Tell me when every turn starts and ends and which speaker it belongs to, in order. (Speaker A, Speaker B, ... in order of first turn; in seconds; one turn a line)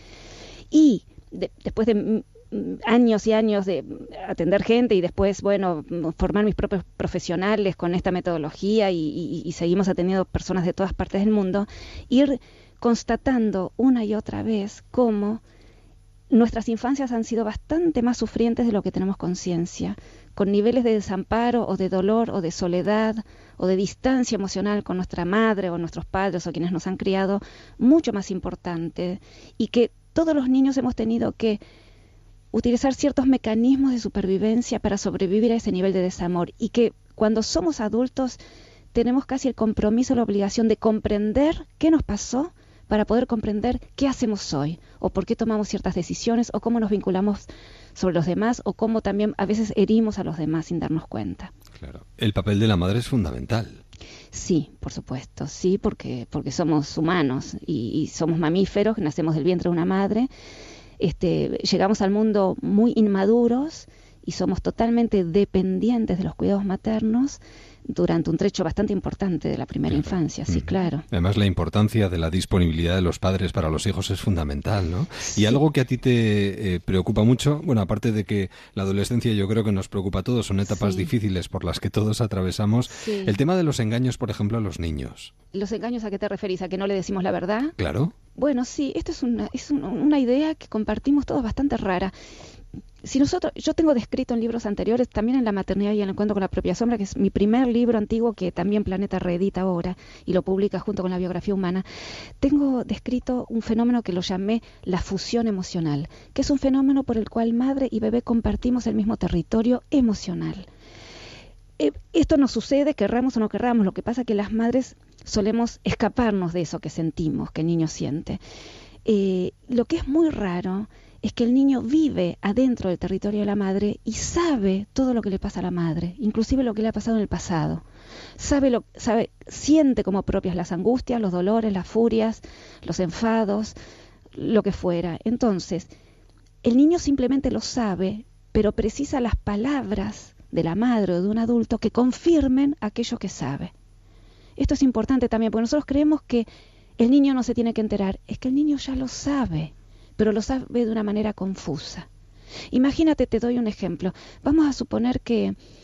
Speaker A: 0.7-15.4
Speaker A: 16.3-31.6
Speaker A: 32.5-38.4
Speaker A: 38.9-51.5
Speaker B: 51.8-53.8
Speaker A: 54.3-60.3
Speaker A: 61.0-71.0
Speaker B: 69.9-85.3
Speaker A: 75.2-75.6
Speaker A: 80.7-81.1
Speaker A: 82.9-83.4
Speaker A: 85.5-87.8
Speaker B: 87.8-88.2
Speaker A: 88.3-92.1
Speaker A: 93.0-101.8
Speaker A: 102.4-110.7
Speaker A: 111.8-118.4
Speaker A: 119.1-127.8
Speaker A: 128.4-133.7
Speaker A: 134.3-135.9
Speaker A: 136.6-143.7
Speaker A: 144.6-152.1
Speaker A: 152.7-155.6